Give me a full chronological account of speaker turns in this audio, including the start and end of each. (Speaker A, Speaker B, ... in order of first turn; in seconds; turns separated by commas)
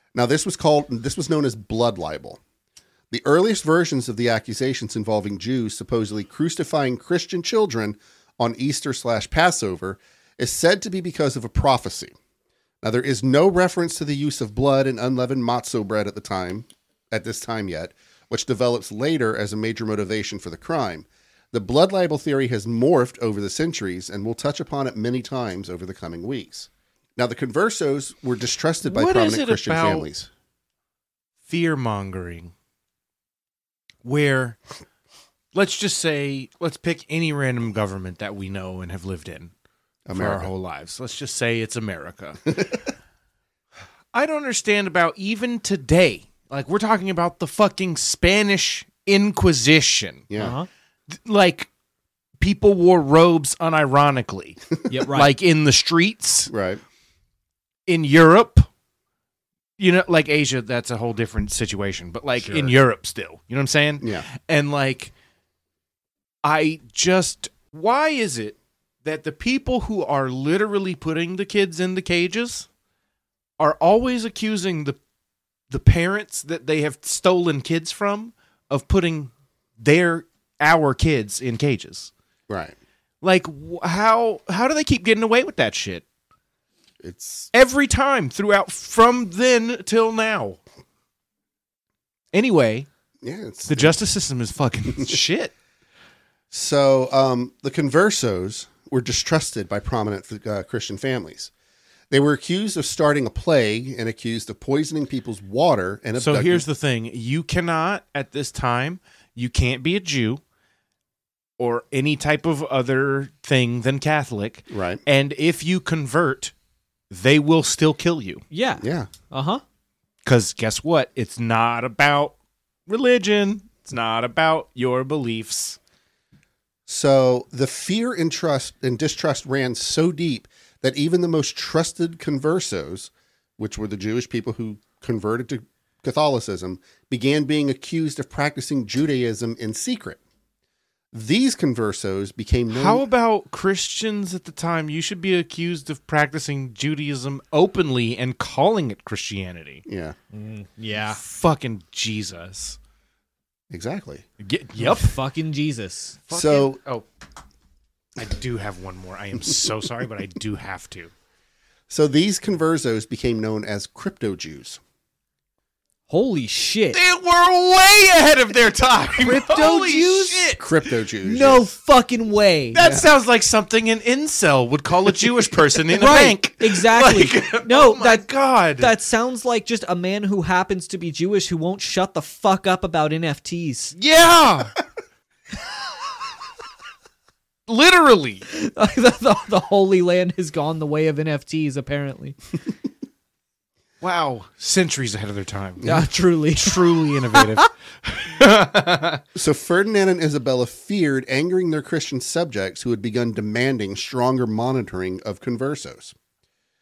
Speaker A: 0.1-2.4, Speaker A: 3.1-12.1, Speaker A: 12.8-30.3, Speaker B: 28.8-30.1, Speaker B: 31.4-32.5, Speaker B: 34.0-34.6, Speaker B: 35.5-39.5, Speaker A: 40.1-40.5, Speaker B: 40.1-42.6, Speaker B: 44.1-50.3, Speaker A: 50.3-50.5, Speaker C: 50.4-50.7, Speaker B: 51.1-51.7, Speaker B: 52.4-56.5, Speaker C: 54.9-55.3, Speaker A: 56.5-56.8, Speaker B: 57.9-58.7, Speaker B: 59.8-65.1, Speaker C: 62.4-62.7, Speaker A: 64.0-64.3, Speaker B: 66.4-72.7, Speaker B: 73.6-75.0, Speaker B: 75.7-82.1, Speaker A: 82.5-82.7, Speaker B: 83.2-86.0, Speaker A: 87.0-87.5, Speaker B: 87.5-90.6, Speaker B: 92.3-92.9, Speaker A: 93.2-94.0, Speaker B: 93.7-95.5, Speaker A: 96.5-101.5, Speaker A: 102.1-106.6, Speaker B: 106.2-110.4, Speaker B: 111.6-116.5, Speaker A: 114.7-115.0, Speaker B: 117.1-118.4, Speaker C: 118.5-119.6, Speaker A: 118.8-119.1, Speaker B: 120.2-122.3, Speaker B: 122.9-125.8, Speaker A: 126.9-140.2, Speaker A: 141.1-143.0, Speaker B: 142.7-149.8, Speaker A: 149.8-150.2, Speaker C: 150.3-151.2, Speaker B: 151.2-152.8, Speaker A: 153.7-154.2, Speaker B: 154.4-155.2, Speaker C: 154.8-156.5, Speaker A: 156.3-156.8, Speaker B: 156.3-157.1, Speaker B: 158.2-161.1, Speaker A: 161.9-164.8, Speaker C: 166.1-167.0, Speaker B: 166.9-170.7, Speaker C: 169.2-170.5, Speaker A: 170.6-171.7, Speaker C: 171.2-172.8, Speaker B: 172.7-178.9, Speaker A: 172.8-173.1, Speaker C: 175.9-183.9, Speaker B: 184.0-184.8, Speaker B: 187.7-188.4, Speaker C: 188.5-192.4, Speaker B: 194.0-199.2, Speaker C: 195.8-196.8, Speaker C: 197.3-197.7, Speaker A: 199.3-206.1